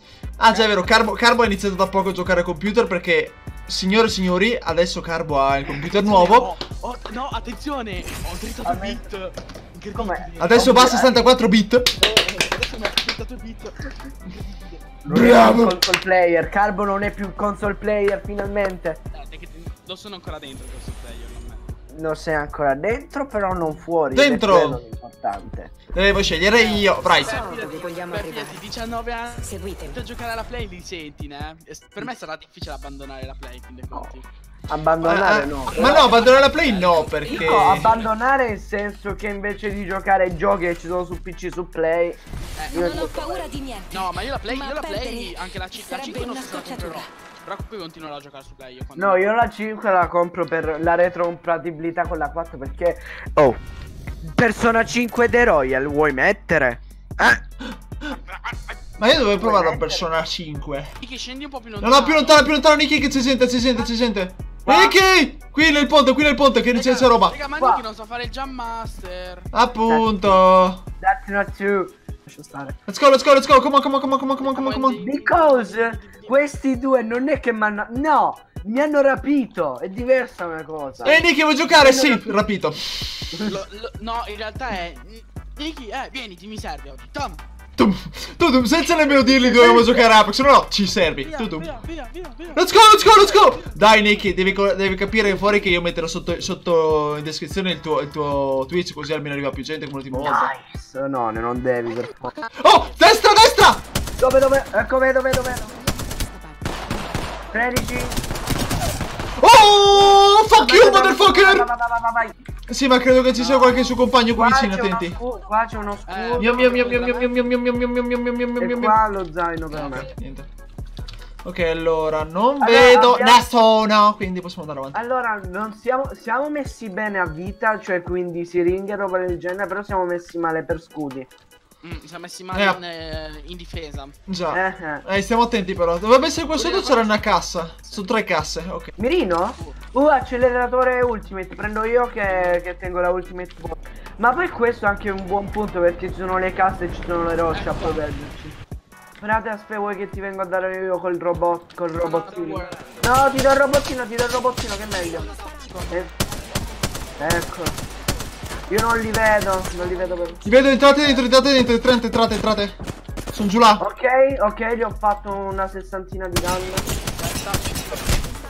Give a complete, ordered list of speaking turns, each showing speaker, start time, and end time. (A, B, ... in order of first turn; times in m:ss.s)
0:00.4-0:06.5 A
0:05.7-0:10.8 B
0:08.6-0:09.0 C
0:09.9-0:11.2 C
0:10.4-0:11.9 A
0:12.0-0:14.8 B
0:15.0-0:19.0 C
0:15.1-0:15.8 A
0:19.1-0:21.7 B
0:21.9-0:25.8 C
0:24.1-0:24.8 A
0:25.9-0:27.4 A
0:26.5-0:34.3 B
0:27.4-0:28.5 D
0:29.6-0:29.9 D
0:34.7-0:36.1 C
0:35.0-0:37.9 A
0:35.7-0:38.1 B
0:37.3-0:42.2 C
0:42.6-0:42.9 B
0:42.7-0:43.5 C
0:42.7-0:45.3 D
0:43.9-0:49.3 B
0:45.9-0:47.0 D
0:49.0-0:53.6 C
0:54.2-0:57.4 C
0:58.1-0:58.8 B
0:59.0-1:00.9 A
0:59.2-1:00.1 C
1:01.0-1:02.5 B
1:01.8-1:07.4 A
1:04.7-1:05.0 B
1:06.7-1:09.5 B
1:07.6-1:07.8 C
1:09.5-1:10.8 A
1:09.9-1:10.5 C
1:11.0-1:12.8 C
1:12.9-1:15.0 A
1:14.4-1:16.6 B
1:15.0-1:22.4 C
1:21.0-1:23.4 A
1:23.4-1:27.4 B
1:27.8-1:31.7 A
1:29.2-1:30.0 C
1:31.2-1:33.8 B
1:32.6-1:40.5 A
1:40.1-1:42.3 C
1:41.8-1:43.0 B
1:42.6-1:43.8 A
1:44.2-1:45.7 C
1:46.1-1:46.6 D
1:47.5-1:48.2 C
1:49.4-1:51.7 A
1:50.0-1:52.3 C
1:52.7-1:55.2 A
1:53.4-1:54.0 B
1:54.4-1:57.2 C
1:56.0-1:57.3 B
1:56.4-1:59.0 A
1:58.6-2:00.1 C
1:59.7-2:00.5 A
2:01.4-2:05.0 A
2:02.6-2:03.4 C
2:04.9-2:11.3 C
2:11.8-2:14.2 B
2:12.5-2:12.8 A
2:14.3-2:18.9 A
2:14.5-2:15.0 C
2:16.5-2:18.1 B
2:19.0-2:28.6 C
2:19.5-2:19.8 B
2:22.3-2:22.6 B
2:27.5-2:28.0 B
2:29.2-2:35.3 C
2:32.0-2:32.9 B
2:35.2-2:36.1 B
2:37.2-2:37.8 C
2:38.7-2:40.4 C
2:40.4-2:42.8 A
2:43.3-2:43.8 A
2:43.8-2:46.9 C
2:47.2-2:48.2 B